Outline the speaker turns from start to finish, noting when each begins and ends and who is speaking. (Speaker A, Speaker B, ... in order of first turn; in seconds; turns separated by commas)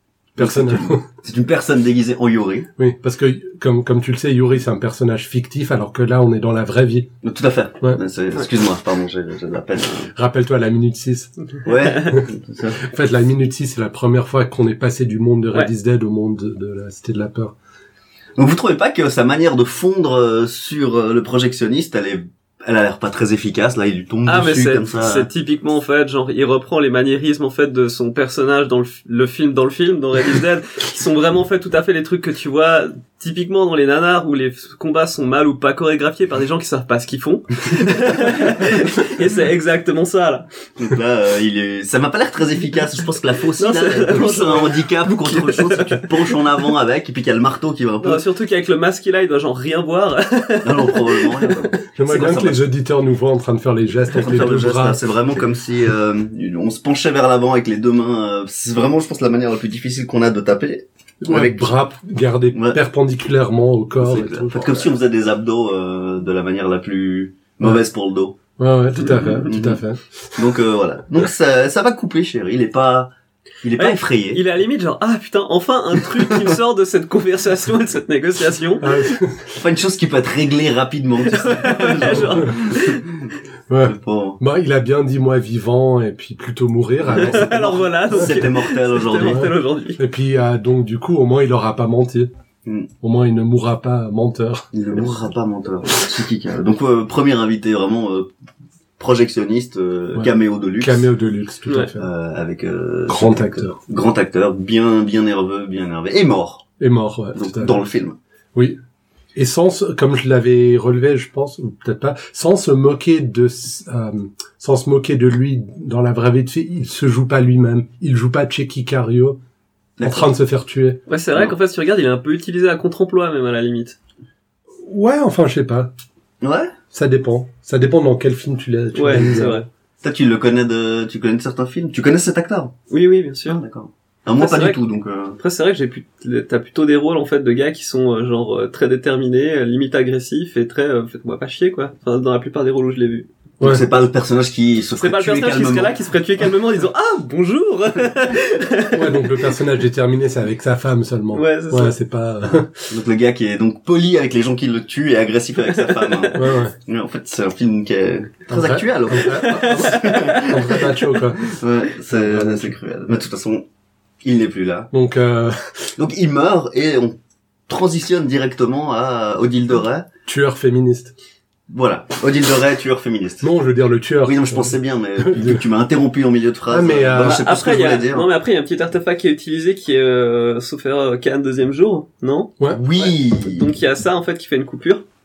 Speaker A: 0.4-2.7, Speaker B: 0.4-1.1, Speaker B: 2.8-7.1, Speaker A: 7.2-10.1, Speaker B: 10.1-11.3, Speaker A: 11.7-12.8, Speaker C: 11.9-12.1, Speaker B: 12.8-17.6, Speaker A: 18.4-25.3, Speaker C: 24.3-40.5, Speaker A: 38.4-38.9, Speaker A: 40.8-48.2, Speaker C: 43.6-46.2, Speaker C: 48.0-51.6, Speaker A: 50.6-52.6, Speaker B: 52.0-55.0, Speaker A: 54.1-61.7, Speaker B: 61.2-64.9, Speaker A: 62.5-62.8, Speaker A: 64.0-68.4, Speaker B: 68.6-70.0, Speaker A: 69.0-69.8, Speaker A: 70.3-73.1, Speaker A: 73.6-74.4, Speaker C: 73.8-79.1, Speaker B: 78.8-79.5, Speaker A: 79.5-83.3, Speaker C: 81.3-83.1, Speaker B: 83.7-88.3, Speaker A: 83.8-84.4, Speaker A: 87.1-89.5, Speaker C: 87.1-90.0, Speaker B: 89.2-92.3, Speaker B: 93.0-94.7, Speaker A: 94.7-98.3, Speaker A: 99.0-101.1, Speaker B: 100.2-102.1, Speaker A: 102.0-106.6, Speaker B: 103.1-103.8, Speaker B: 106.8-107.8, Speaker A: 107.3-108.2, Speaker B: 109.3-119.4, Speaker A: 120.0-120.3, Speaker B: 120.0-121.0, Speaker C: 121.1-124.0, Speaker B: 124.8-125.9, Speaker A: 126.4-126.7, Speaker B: 126.9-129.7, Speaker C: 128.9-129.7, Speaker A: 130.0-132.7, Speaker C: 132.9-133.6, Speaker A: 133.5-135.4, Speaker C: 134.4-134.8, Speaker C: 135.4-143.3, Speaker A: 143.6-146.0, Speaker C: 145.0-149.5, Speaker B: 148.9-152.7, Speaker C: 151.3-151.9, Speaker A: 152.9-163.7, Speaker C: 155.8-156.4, Speaker B: 156.3-156.8, Speaker B: 158.5-161.5, Speaker C: 159.2-160.9, Speaker B: 162.1-162.7, Speaker A: 164.2-164.9, Speaker B: 164.9-165.9, Speaker A: 166.0-167.2, Speaker A: 167.7-170.1, Speaker B: 170.3-171.1, Speaker A: 171.7-173.5, Speaker B: 173.4-175.6, Speaker A: 174.2-178.3, Speaker B: 176.7-177.4, Speaker C: 177.2-185.0, Speaker A: 182.7-183.7